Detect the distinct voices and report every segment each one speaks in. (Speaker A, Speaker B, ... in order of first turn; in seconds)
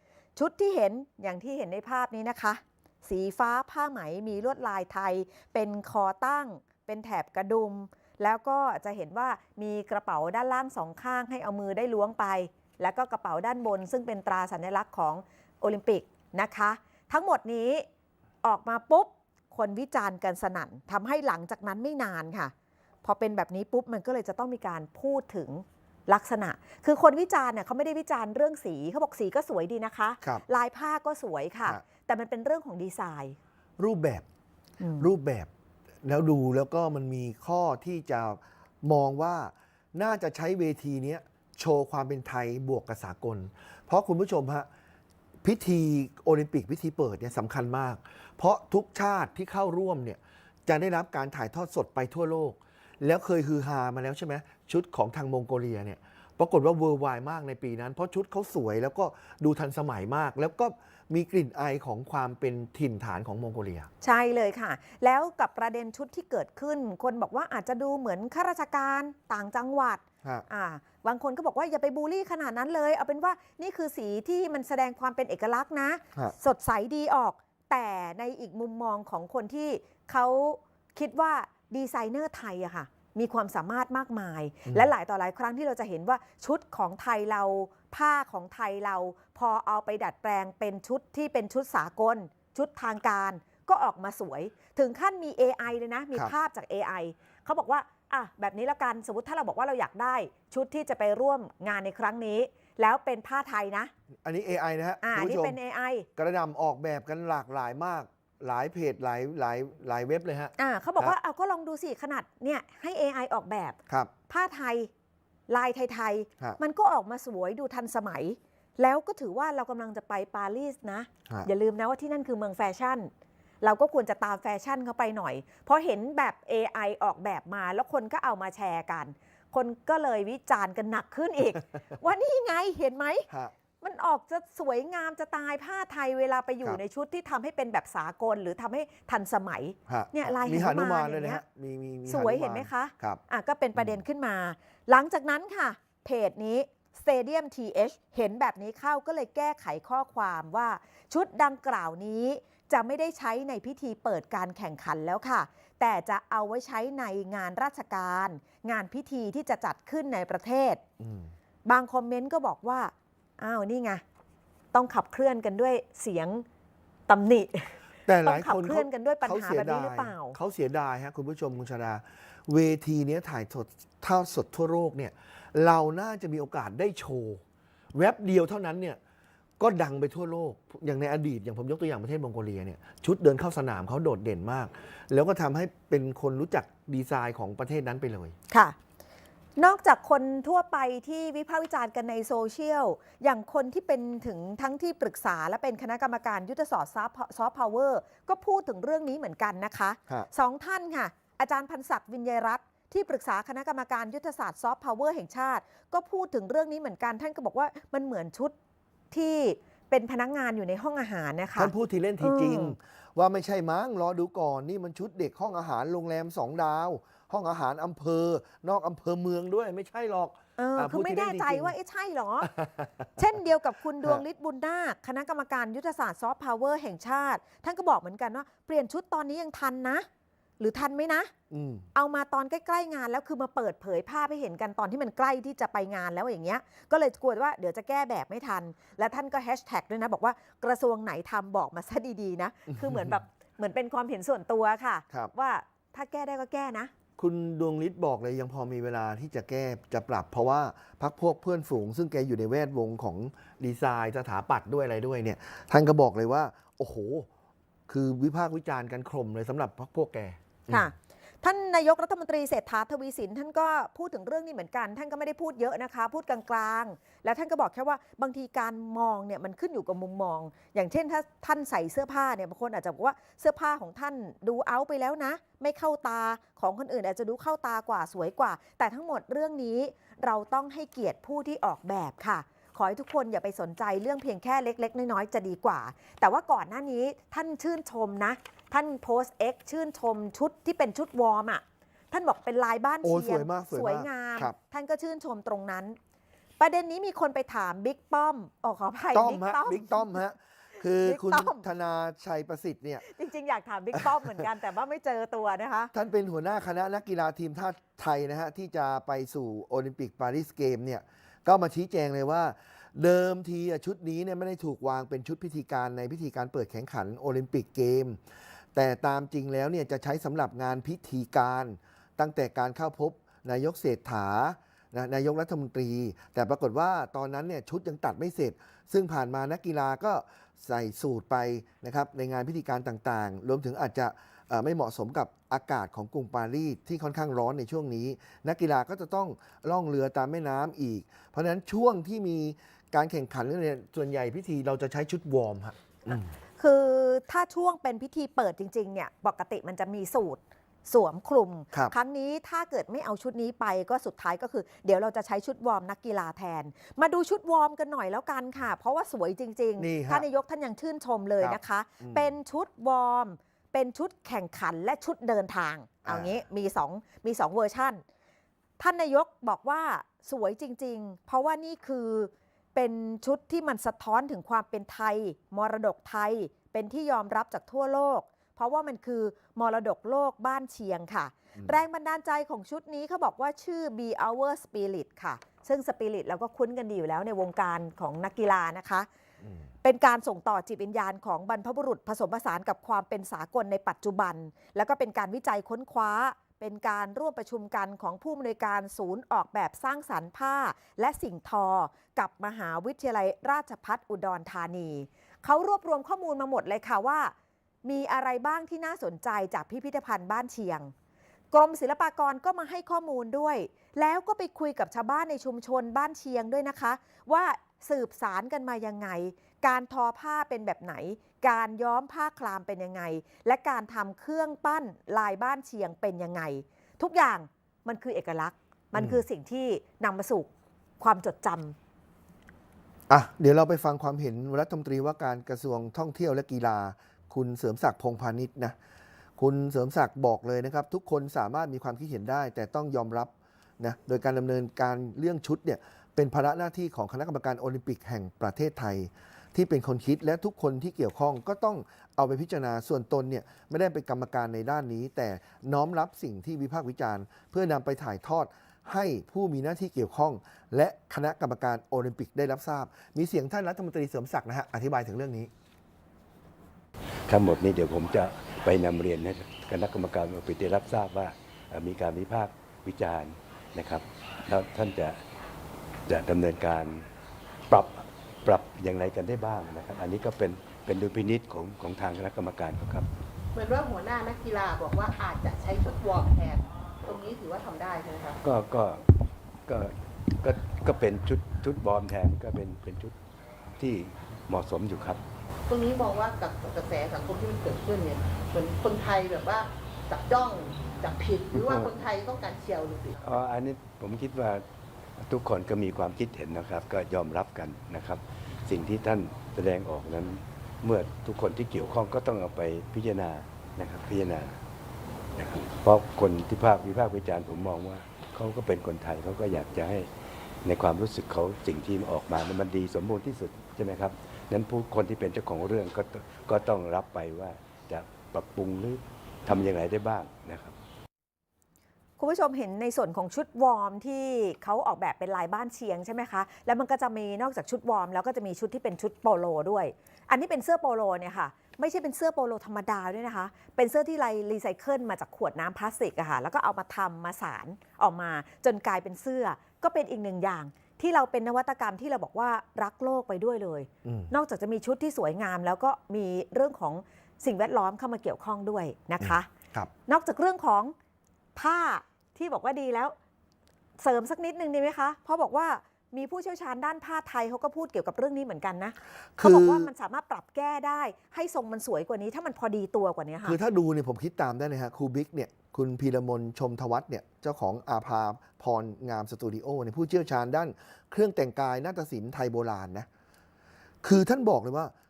Speaker A: 0.4-17.9, 18.4-22.5, 23.0-33.4, 34.8-35.1, 64.0-103.9, 105.0-106.1, 110.6-113.8, 114.3-114.9, 115.5-123.1, 123.6-133.3, 133.8-141.4, 142.1-160.8, 161.7-164.0, 164.7-166.4, 167.1-170.4, 188.5-188.8, 189.6-208.5, 209.1-212.7, 220.6-222.5, 223.2-230.1, 230.6-231.3, 231.9-246.9, 260.7-296.0, 296.6-300.2, 301.0-301.6, 303.1-305.9, 346.6-368.0, 368.8-389.1, 389.8-407.3, 407.8-410.9, 411.5-431.8, 532.2-559.5, 560.1-560.9, 561.6-563.1, 564.0-573.6
Speaker B: 33.8-34.3, 35.0-35.5, 36.0-44.7, 45.4-63.9, 104.2-105.6, 106.2-111.2, 139.9-143.2, 143.8-144.0, 161.0-161.3, 168.1-177.4, 177.9-179.0, 179.6-188.3, 211.6-221.7, 222.4-223.1, 231.5-231.9, 242.7-243.2, 247.2-257.3, 257.9-260.9, 293.0-294.6, 299.1-303.1, 304.0-304.4, 305.9-318.2, 318.7-346.3, 359.8-360.3, 361.4-362.3, 366.1-366.3, 428.9-429.2, 433.1-438.8, 439.4-465.5, 554.0-554.3, 559.2-559.9, 569.4-569.9, 573.4-583.1, 584.0-584.9
Speaker C: 467.3-475.2, 476.1-477.1, 477.7-483.1, 488.4-489.1, 489.7-493.1, 493.8-495.2, 501.5-501.9, 503.2-504.6, 505.2-514.6, 515.4-520.1, 520.6-530.8
Speaker D: 483.5-488.4, 495.7-503.4